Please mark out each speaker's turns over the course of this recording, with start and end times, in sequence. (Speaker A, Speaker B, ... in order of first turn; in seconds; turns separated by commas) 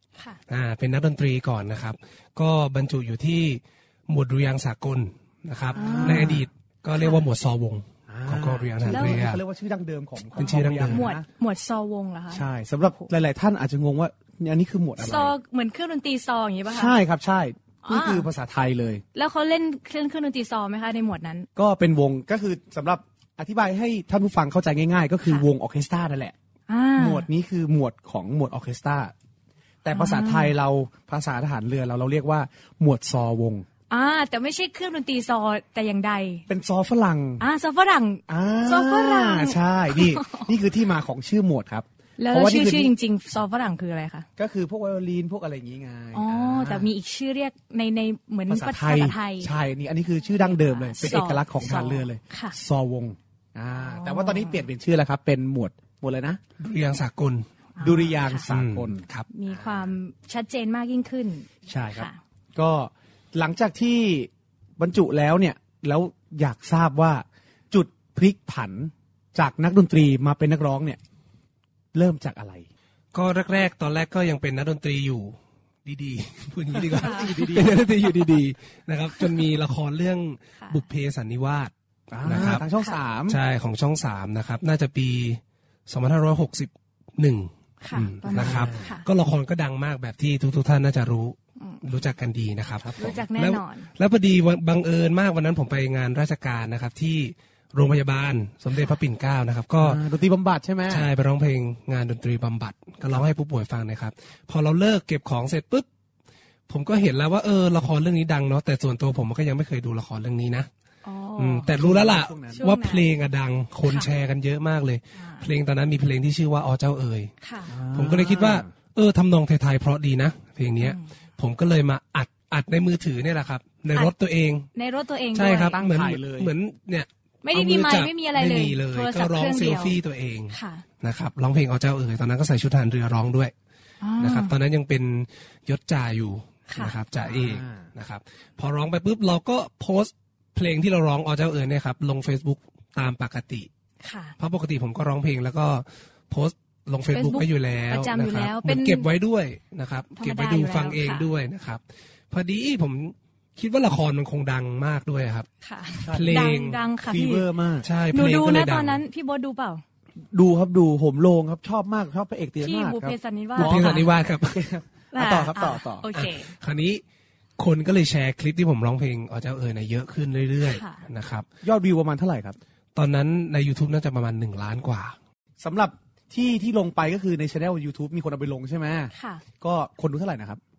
Speaker A: 0.5-9.4, Speaker B: 5.7-6.5, Speaker C: 5.8-6.4, Speaker C: 7.0-7.2, Speaker B: 8.1-11.3, Speaker C: 8.9-9.3, Speaker A: 10.4-11.1, Speaker C: 10.4-12.4, Speaker B: 12.3-15.3, Speaker C: 15.0-17.0, Speaker B: 16.7-19.0, Speaker C: 17.9-18.3, Speaker C: 19.1-21.5, Speaker B: 21.6-26.4, Speaker C: 26.7-27.3, Speaker B: 27.0-29.1, Speaker B: 29.8-33.7, Speaker C: 29.9-30.5, Speaker C: 33.9-36.5, Speaker B: 36.5-37.5, Speaker C: 37.4-40.5, Speaker B: 38.3-42.9, Speaker C: 42.2-44.3, Speaker B: 44.4-46.9, Speaker C: 46.1-49.5, Speaker B: 48.5-56.4, Speaker C: 50.4-52.6, Speaker C: 53.8-54.6, Speaker A: 56.6-57.5, Speaker C: 57.8-58.5, Speaker B: 57.8-59.9, Speaker A: 58.5-59.3, Speaker C: 59.3-62.2, Speaker B: 61.7-71.0, Speaker B: 71.9-72.7, Speaker A: 73.1-81.7, Speaker B: 76.7-77.9, Speaker C: 77.0-77.5, Speaker C: 80.6-80.8, Speaker B: 82.1-83.4, Speaker A: 82.2-82.7, Speaker A: 83.3-100.0, Speaker C: 87.8-89.1, Speaker B: 88.3-88.9, Speaker C: 91.6-91.8, Speaker B: 92.8-93.2, Speaker C: 93.0-93.9, Speaker B: 99.8-101.1, Speaker A: 100.9-105.9, Speaker A: 106.7-110.7, Speaker C: 111.0-111.7, Speaker A: 111.4-117.3, Speaker B: 111.7-112.7, Speaker C: 112.5-113.0, Speaker C: 113.8-114.1, Speaker C: 115.2-115.5, Speaker C: 117.4-117.8, Speaker B: 117.7-118.7, Speaker A: 117.9-124.7, Speaker C: 120.8-121.1, Speaker C: 124.7-125.8, Speaker A: 125.3-133.5, Speaker B: 125.5-126.5, Speaker C: 127.4-130.0, Speaker C: 130.5-130.8, Speaker C: 134.0-134.5, Speaker A: 134.2-143.7, Speaker C: 136.7-137.0, Speaker B: 137.2-137.9, Speaker C: 144.0-144.3, Speaker A: 144.4-155.5, Speaker C: 147.1-149.1, Speaker C: 150.2-151.3, Speaker C: 155.6-157.5, Speaker A: 156.0-156.8, Speaker B: 156.1-157.9, Speaker A: 157.8-159.0, Speaker C: 158.1-159.8, Speaker B: 160.3-166.1, Speaker C: 162.6-164.1, Speaker A: 163.6-164.6, Speaker C: 165.1-166.5, Speaker A: 166.1-167.0, Speaker A: 167.6-171.5, Speaker C: 170.7-171.1, Speaker B: 171.6-172.6, Speaker A: 172.9-175.2, Speaker B: 175.6-180.6, Speaker C: 179.1-179.4